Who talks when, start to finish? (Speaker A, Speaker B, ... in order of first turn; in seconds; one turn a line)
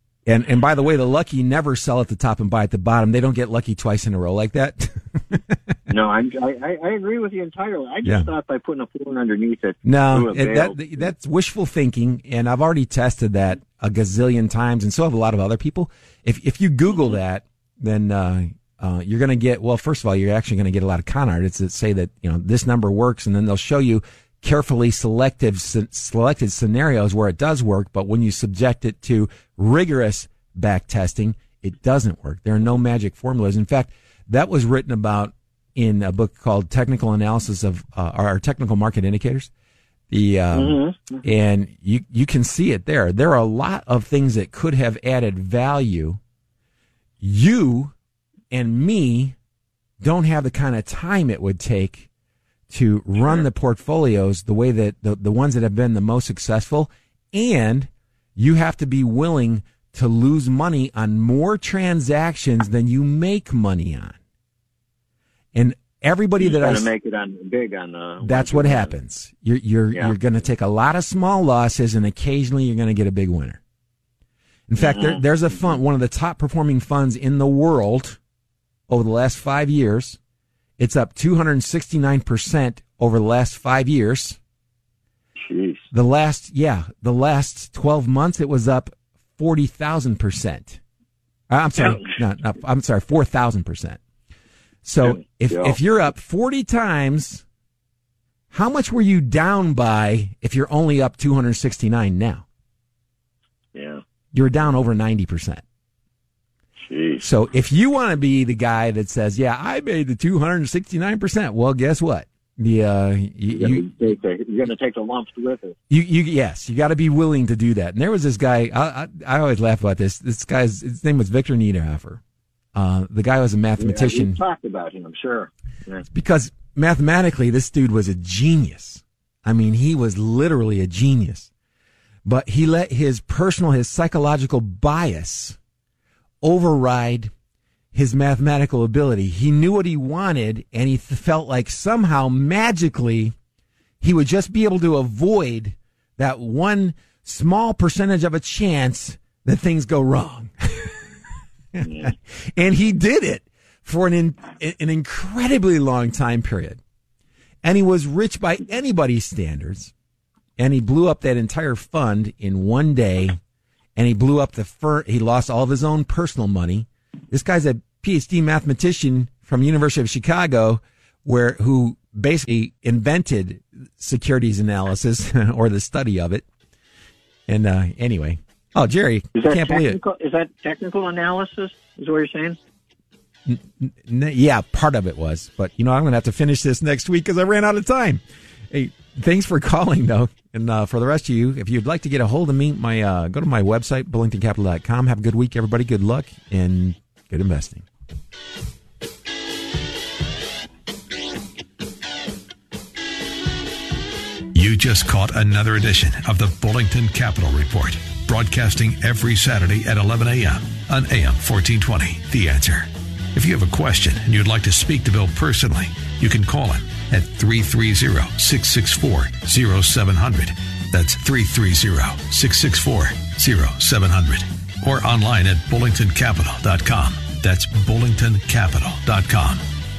Speaker A: 0.3-5.7
Speaker B: 5.9-10.9
Speaker A: 8.0-8.3
Speaker A: 9.8-39.5
Speaker A: 40.1-46.2
Speaker B: 40.5-41.2
Speaker A: 47.2-47.9
Speaker A: 48.5-49.4
Speaker A: 50.0-52.1
Speaker A: 52.7-64.2
Speaker A: 65.5-66.9
Speaker B: 66.4-68.9
Speaker A: 68.2-73.6
Speaker A: 74.7-78.2
Speaker B: 74.8-75.2
Speaker A: 78.9-80.2
Speaker A: 80.8-84.4
Speaker B: 85.4-85.8
Speaker A: 85.9-90.8
Speaker A: 91.5-94.0
Speaker A: 94.8-97.4
Speaker B: 95.0-95.8
Speaker A: 98.5-102.4
Speaker B: 103.7-104.0
Speaker A: 104.3-105.6
Speaker B: 106.8-107.2
Speaker A: 107.2-114.2
Speaker B: 113.5-115.8
Speaker A: 115.9-122.2
Speaker A: 122.8-124.4
Speaker B: 123.8-126.0
Speaker A: 126.1-131.5
Speaker A: 132.2-135.6
Speaker A: 136.4-137.3
Speaker A: 137.9-143.3
Speaker A: 144.0-150.9
Speaker A: 151.7-156.8
Speaker B: 151.8-152.1
Speaker A: 157.6-159.9
Speaker A: 160.6-163.4
Speaker A: 163.9-176.4
Speaker A: 177.5-180.0
Speaker B: 179.3-182.6
Speaker A: 183.4-197.9
Speaker C: 204.5-229.6